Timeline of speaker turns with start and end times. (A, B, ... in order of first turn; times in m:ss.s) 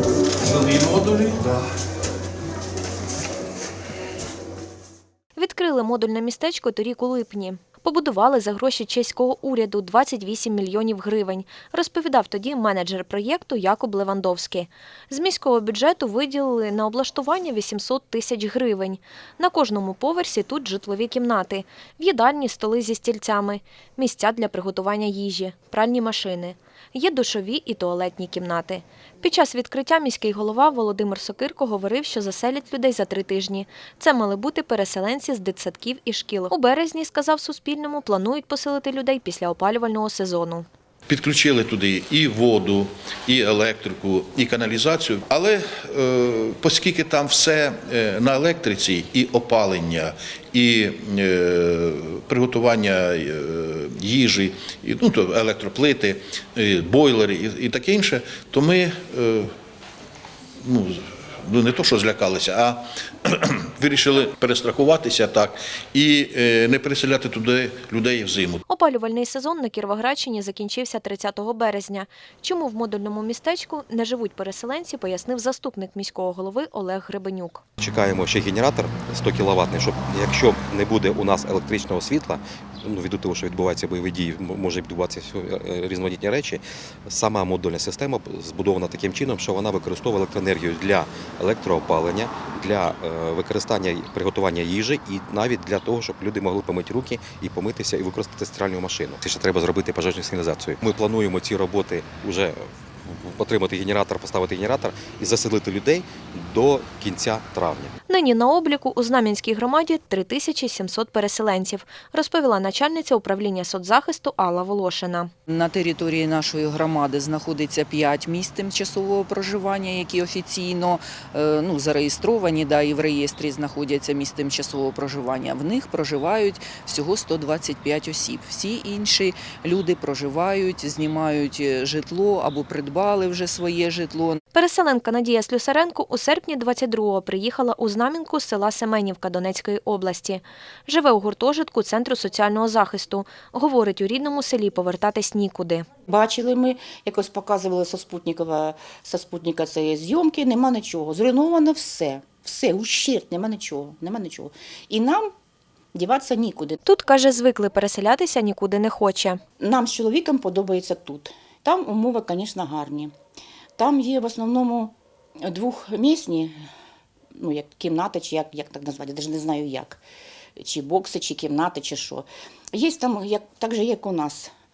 0:00.5-0:01.5 A
0:05.4-0:40.7 B
0:41.1-0:59.5 A
1:00.6-1:08.6 A
1:08.7-1:17.6 B
1:17.8-1:47.9 C
1:48.1-1:55.3 B
1:55.5-2:14.4 D
2:14.5-2:25.9 B
2:26.1-2:35.3 E
2:35.9-2:36.8 E
2:36.8-2:39.4 B
2:39.6-2:43.1 E
2:43.8-2:46.5 E
2:47.3-2:50.0 E
2:50.6-2:54.5 E